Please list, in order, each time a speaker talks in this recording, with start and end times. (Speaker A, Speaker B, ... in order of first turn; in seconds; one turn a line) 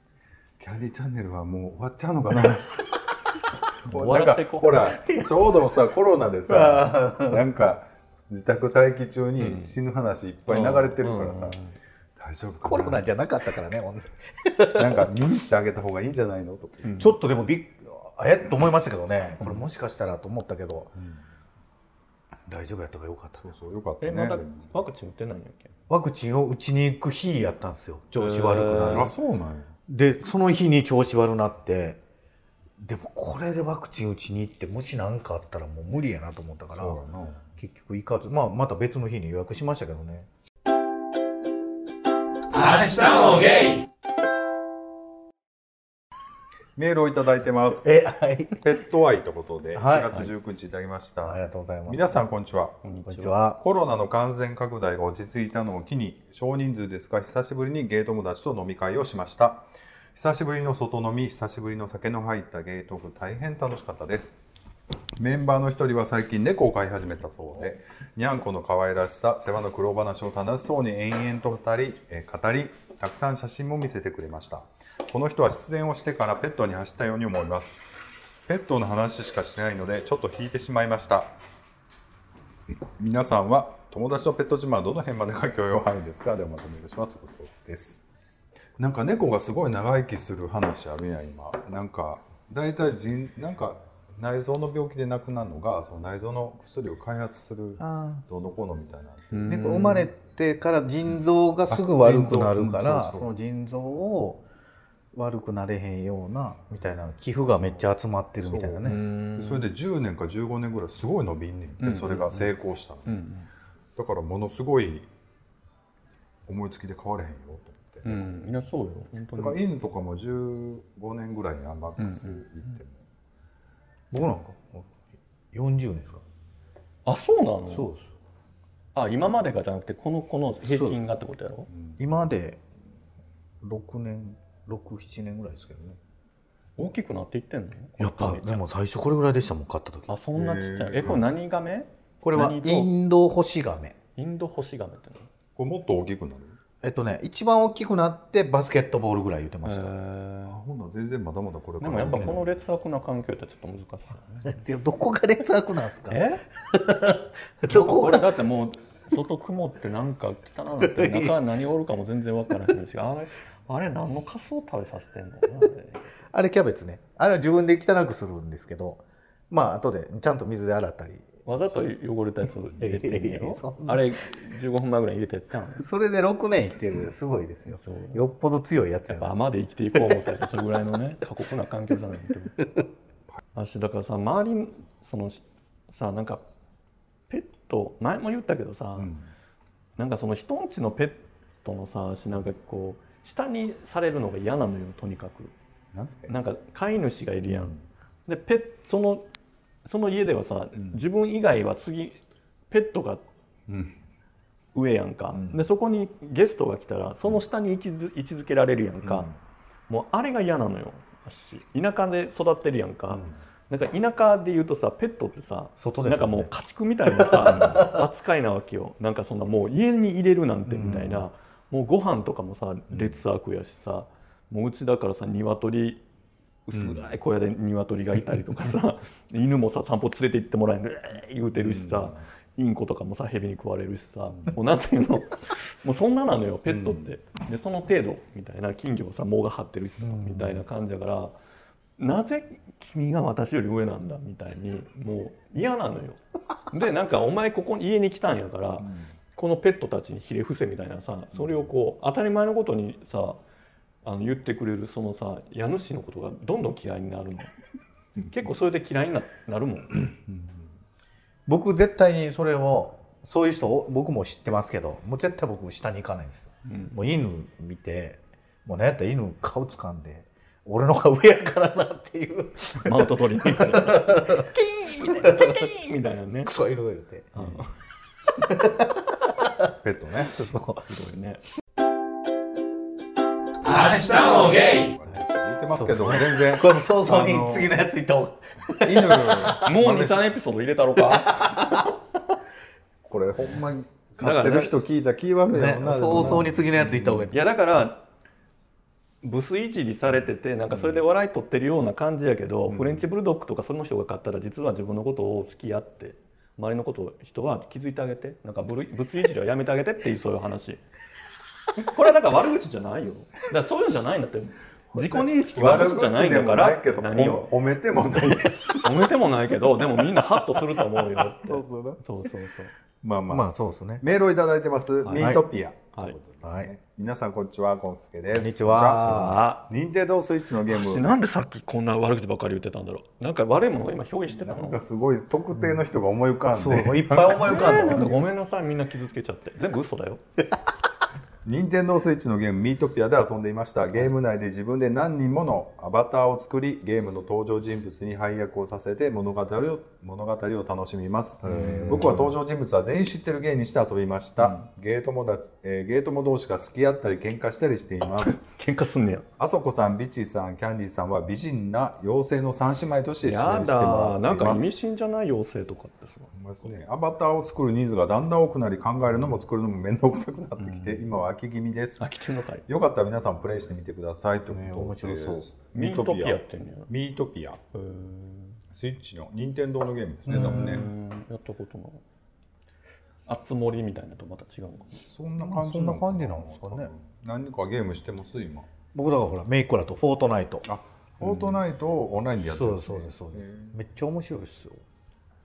Speaker A: 0.6-11.6
Speaker B: 3.9-4.9
Speaker C: 6.5-7.5
Speaker B: 9.4-9.8
Speaker B: 10.5-11.8
Speaker A: 12.2-13.1
Speaker C: 12.6-15.1
Speaker A: 14.7-16.9
Speaker B: 16.8-17.1
Speaker C: 17.0-20.9
Speaker A: 21.0-21.2
Speaker C: 22.5-23.4
Speaker A: 23.4-24.8
Speaker B: 24.0-25.7
Speaker C: 25.9-29.1
Speaker B: 28.2-29.1
Speaker A: 28.7-29.7
Speaker C: 29.9-32.0
Speaker C: 32.8-37.0
Speaker A: 36.7-37.5
Speaker C: 37.6-40.3
Speaker A: 46.8-47.9
Speaker C: 47.8-48.6
Speaker A: 48.6-52.8
Speaker C: 49.8-50.3
Speaker C: 51.2-52.3
Speaker B: 52.8-53.3
Speaker C: 53.1-53.6
Speaker A: 53.6-64.4
Speaker A: 65.2-77.8
Speaker A: 78.5-81.4
Speaker A: 83.0-88.0
Speaker A: 88.8-99.6
Speaker C: 97.8-98.2
Speaker B: 99.3-100.1
Speaker C: 99.5-104.5
Speaker A: 101.7-103.3
Speaker C: 105.1-109.0
Speaker A: 108.4-113.2
Speaker B: 108.8-109.7
Speaker B: 111.8-112.5
Speaker B: 113.1-113.5
Speaker A: 114.0-115.1
Speaker A: 116.5-118.3
Speaker B: 118.0-119.6
Speaker A: 119.3-123.0
Speaker B: 122.0-122.4
Speaker C: 124.1-126.2
Speaker B: 127.1-127.9
Speaker C: 127.7-128.1
Speaker B: 128.9-131.7
Speaker C: 130.7-131.0
Speaker A: 131.7-132.0
Speaker C: 132.0-132.7
Speaker C: 133.6-136.0
Speaker B: 136.8-138.6
Speaker C: 138.0-140.1
Speaker B: 140.1-142.9
Speaker A: 140.3-141.2
Speaker C: 142.2-144.0
Speaker B: 144.2-145.3
Speaker A: 145.6-146.6
Speaker C: 146.8-149.9
Speaker B: 149.6-150.6
Speaker A: 150.5-152.6
Speaker B: 151.8-154.6
Speaker C: 154.4-158.4
Speaker B: 156.1-156.4
Speaker B: 157.7-166.2
Speaker C: 160.8-161.3
Speaker C: 166.3-171.8
Speaker B: 171.5-175.8
Speaker C: 172.8-174.2
Speaker C: 175.8-179.4
Speaker B: 177.7-178.2
Speaker B: 179.1-182.6
Speaker B: 183.6-186.4
Speaker B: 187.3-189.1
Speaker A: 189.0-189.3
Speaker B: 190.0-195.5
Speaker A: 195.9-196.3
Speaker B: 196.3-199.3
Speaker A: 197.5-197.8
Speaker B: 199.8-203.2
Speaker A: 203.7-204.0
Speaker B: 204.7-209.3
Speaker A: 205.3-205.6
Speaker A: 209.0-209.3
Speaker B: 209.9-226.0
Speaker C: 215.8-216.5
Speaker C: 217.1-218.0
Speaker A: 217.5-217.8
Speaker C: 220.7-221.2
Speaker A: 222.9-223.2
Speaker B: 226.7-241.3
Speaker A: 226.7-227.1
Speaker A: 231.6-232.2
Speaker A: 236.7-237.1
Speaker C: 240.0-240.5
Speaker B: 242.0-253.4
Speaker A: 251.3-251.6
Speaker B: 254.0-257.5
Speaker B: 258.2-260.1
Speaker A: 260.3-260.7
Speaker C: 261.5-274.5
Speaker B: 266.7-267.0
Speaker B: 272.6-276.5
Speaker C: 275.1-275.7
Speaker C: 276.4-277.6
Speaker B: 277.4-277.7
Speaker C: 278.4-279.7
Speaker A: 279.8-280.4
Speaker C: 280.3-280.8
Speaker B: 280.3-281.4
Speaker A: 284.1-287.7
Speaker C: 285.7-289.6
Speaker A: 288.8-290.2
Speaker B: 289.6-291.9
Speaker C: 291.1-291.9
Speaker A: 293.1-297.3
Speaker B: 294.2-294.8
Speaker C: 295.5-297.4
Speaker B: 296.1-296.4
Speaker B: 297.3-298.1
Speaker B: 299.2-310.8
Speaker A: 302.7-303.0
Speaker B: 311.8-317.5
Speaker A: 315.0-319.1
Speaker B: 318.8-322.7
Speaker A: 321.1-322.0
Speaker A: 323.0-331.1
Speaker C: 323.3-324.1
Speaker B: 325.0-325.4
Speaker C: 325.1-325.4
Speaker C: 326.4-326.7
Speaker C: 328.3-329.4
Speaker B: 329.0-329.7
Speaker B: 330.7-334.8
Speaker A: 334.3-338.1
Speaker C: 335.5-335.8
Speaker C: 336.4-338.1
Speaker B: 337.3-340.2
Speaker A: 341.4-358.4
Speaker C: 351.4-352.3
Speaker B: 358.2-359.3
Speaker A: 359.4-364.7
Speaker B: 363.2-366.3
Speaker A: 366.3-372.1
Speaker B: 370.6-371.0
Speaker B: 372.0-372.7
Speaker A: 372.7-377.6
Speaker C: 374.5-375.5
Speaker B: 375.8-376.9
Speaker B: 377.7-378.6
Speaker A: 378.7-380.9
Speaker C: 380.3-380.9
Speaker B: 380.3-382.0
Speaker B: 383.3-385.0
Speaker A: 385.1-388.7
Speaker C: 385.4-386.9
Speaker C: 388.9-390.7
Speaker A: 390.7-393.8
Speaker C: 392.4-394.9